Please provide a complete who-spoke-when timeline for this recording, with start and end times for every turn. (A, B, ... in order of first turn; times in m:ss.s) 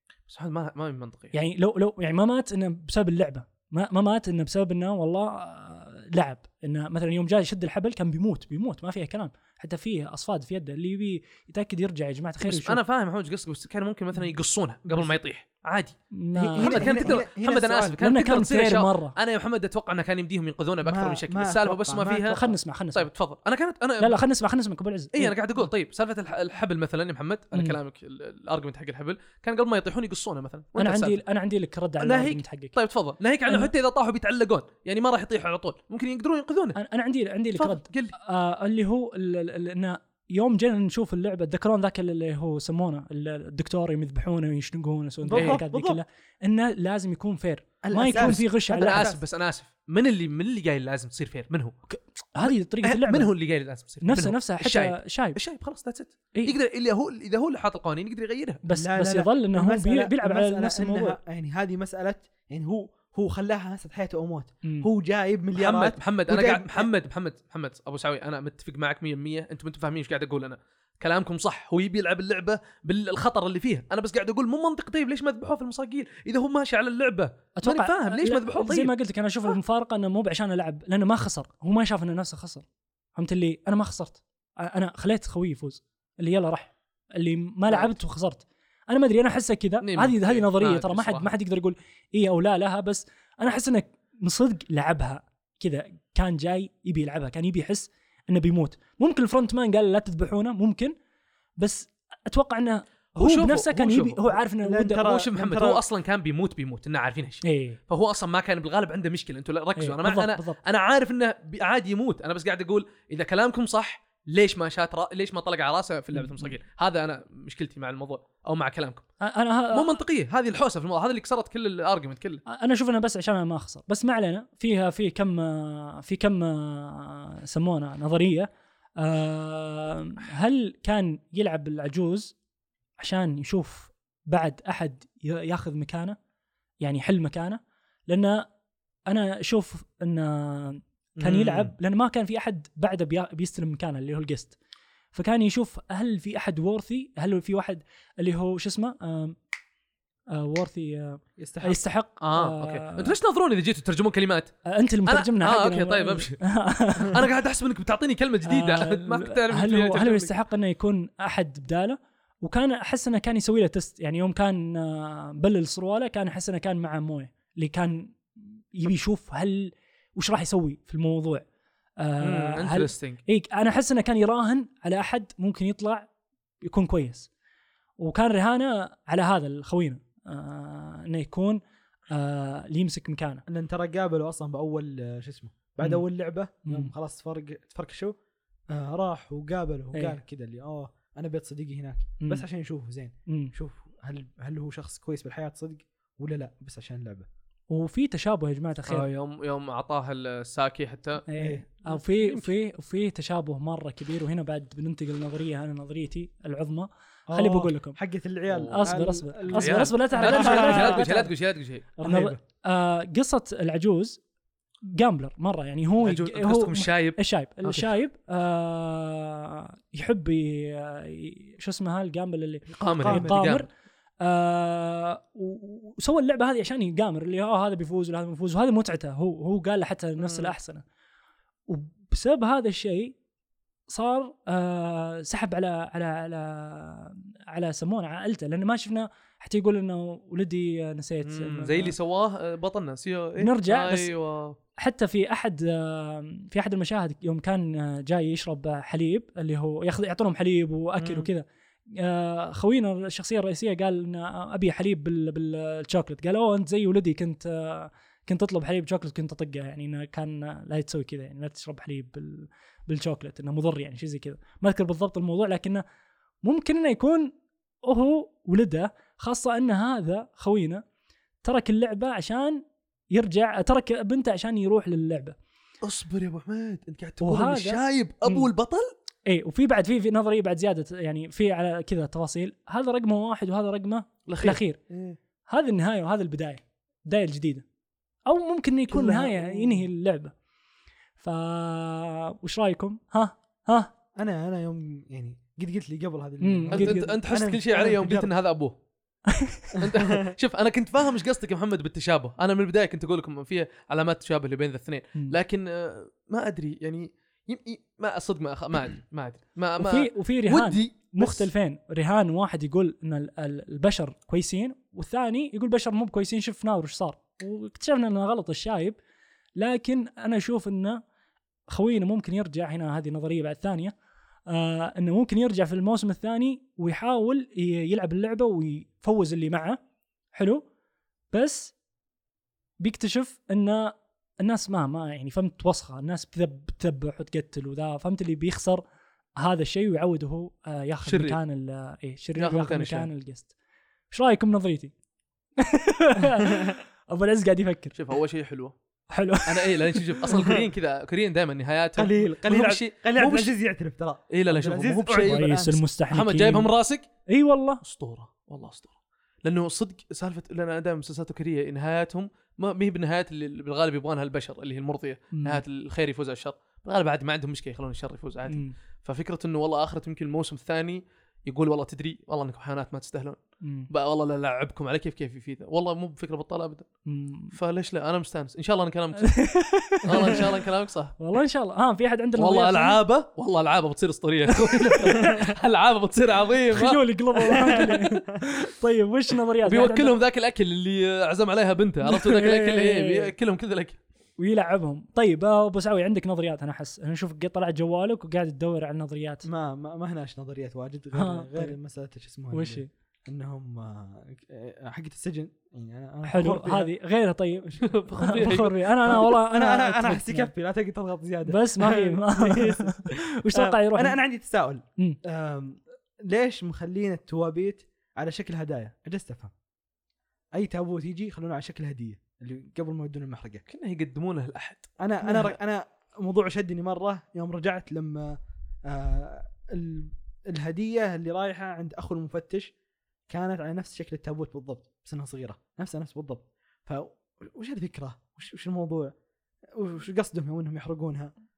0:00.3-0:01.3 A
0:01.3-0:12.8 B
0:12.4-0:16.0 A
0:16.1-0:17.2 B
0:16.4-0:18.0 C
0:16.6-0:22.4 A
0:18.0-0:19.1 B
0:20.8-0:22.5 C
0:22.2-0:23.1 B
0:22.9-0:24.2 A
0:24.0-0:25.7 B
0:25.1-0:31.2 A
0:30.8-0:32.8 B
0:32.0-0:36.8 A
0:36.8-0:49.1 B
0:37.6-0:38.2 A
0:45.2-0:46.0 C
0:45.4-0:45.6 A
0:47.8-0:49.2 C
0:48.2-0:51.7 A
0:51.9-0:53.3 B
0:52.4-0:58.6 A
0:54.0-0:55.4 B
0:58.6-1:01.2 B
0:58.7-1:06.9 C
1:04.6-1:04.9 B
1:05.6-1:18.9 A
1:17.6-1:22.6 B
1:23.2-1:40.9 B
1:29.8-1:31.3 A
1:41.6-1:45.2 B
1:43.2-1:44.3 A
1:44.6-1:45.8 C
1:45.1-1:59.0 A
1:47.4-1:47.8 B
1:49.8-1:50.6 B
1:56.2-1:56.6 B
1:59.2-1:59.9 B
1:59.7-2:02.4 A
2:02.5-2:12.4 B
2:13.0-2:16.2 B
2:16.8-2:18.5 B
2:19.1-2:24.6 B
2:21.2-2:21.8 A
2:25.1-2:29.4 B
2:30.3-2:33.2 B
2:31.4-2:31.8 C
2:32.2-2:36.4 A
2:34.7-2:37.2 B
2:37.0-2:40.3 A
2:38.5-2:51.4 B
2:52.0-2:56.1 B
2:52.2-2:53.2 A
2:56.6-2:57.3 B
2:58.0-3:03.4 B
3:03.5-3:08.1 C
3:06.7-3:06.9 B
3:08.7-3:17.3 C
3:13.3-3:13.5 B
3:17.7-3:19.1 B
3:18.9-3:21.2 A
3:21.3-3:28.0 B
3:21.4-3:21.6 C
3:21.9-3:22.5 A
3:27.3-3:31.1 C
3:28.5-3:28.9 A
3:28.7-3:31.3 B
3:29.5-3:31.9 A
3:32.0-3:32.4 C
3:32.0-3:34.2 B
3:34.9-3:43.7 B
3:36.0-3:37.9 A
3:42.8-3:43.4 C
3:42.8-3:43.7 A
3:44.2-3:50.8 B
3:50.2-3:50.5 A
3:51.7-3:53.2 B
3:53.9-4:01.9 B
4:01.2-4:04.6 A
4:03.4-4:04.1 B
4:04.8-4:25.8 B
4:11.0-4:11.3 A
4:26.4-4:27.3 B
4:27.8-4:30.8 B
4:31.4-4:35.4 B
4:35.8-4:38.9 A
4:37.2-4:38.5 B
4:39.3-4:44.8 B
4:44.3-4:45.2 A
4:45.5-4:47.6 B
4:48.3-4:50.3 B
4:48.9-4:49.3 C
4:51.2-4:53.9 B
4:54.2-4:58.3 C
4:56.4-4:57.2 B
4:56.7-4:58.7 A
4:59.3-4:59.7 B
4:59.8-5:00.2 C
4:59.8-5:11.5 A
5:09.8-5:19.0 B
5:19.6-5:21.0 B
5:21.7-5:24.0 B
5:24.5-5:29.8 B
5:30.3-5:30.6 B
5:31.3-5:31.7 B
5:32.8-5:38.8 B
5:39.4-5:43.5 B
5:41.0-5:41.4 A
5:42.4-5:43.1 A
5:44.1-5:44.9 B
5:45.6-5:48.0 B
5:48.0-5:48.8 A
5:49.1-5:50.3 B
5:49.5-5:53.5 A
5:52.0-5:55.8 C
5:54.3-5:55.5 A
5:55.1-5:56.7 B
5:56.1-5:57.1 A
5:57.3-5:57.8 B
5:57.8-6:16.9 A
6:05.3-6:05.6 B
6:08.5-6:08.7 B
6:13.6-6:13.9 B
6:17.1-6:17.5 B
6:17.5-6:19.4 A
6:19.2-6:20.5 B
6:20.0-6:21.2 A
6:21.2-6:23.0 B
6:22.4-6:28.1 A
6:24.6-6:25.4 B
6:26.7-6:30.2 B
6:29.6-6:34.0 A
6:32.0-6:33.3 B
6:34.4-6:39.5 B
6:39.4-6:46.9 C
6:41.1-6:41.8 B
6:42.5-6:42.9 B
6:46.2-6:50.5 B
6:47.8-6:49.1 A
6:49.1-6:59.5 C
6:51.5-6:54.2 B
7:00.6-7:03.6 C
7:03.7-7:04.9 A
7:05.0-7:12.7 C
7:13.3-7:19.1 C
7:19.7-7:21.3 C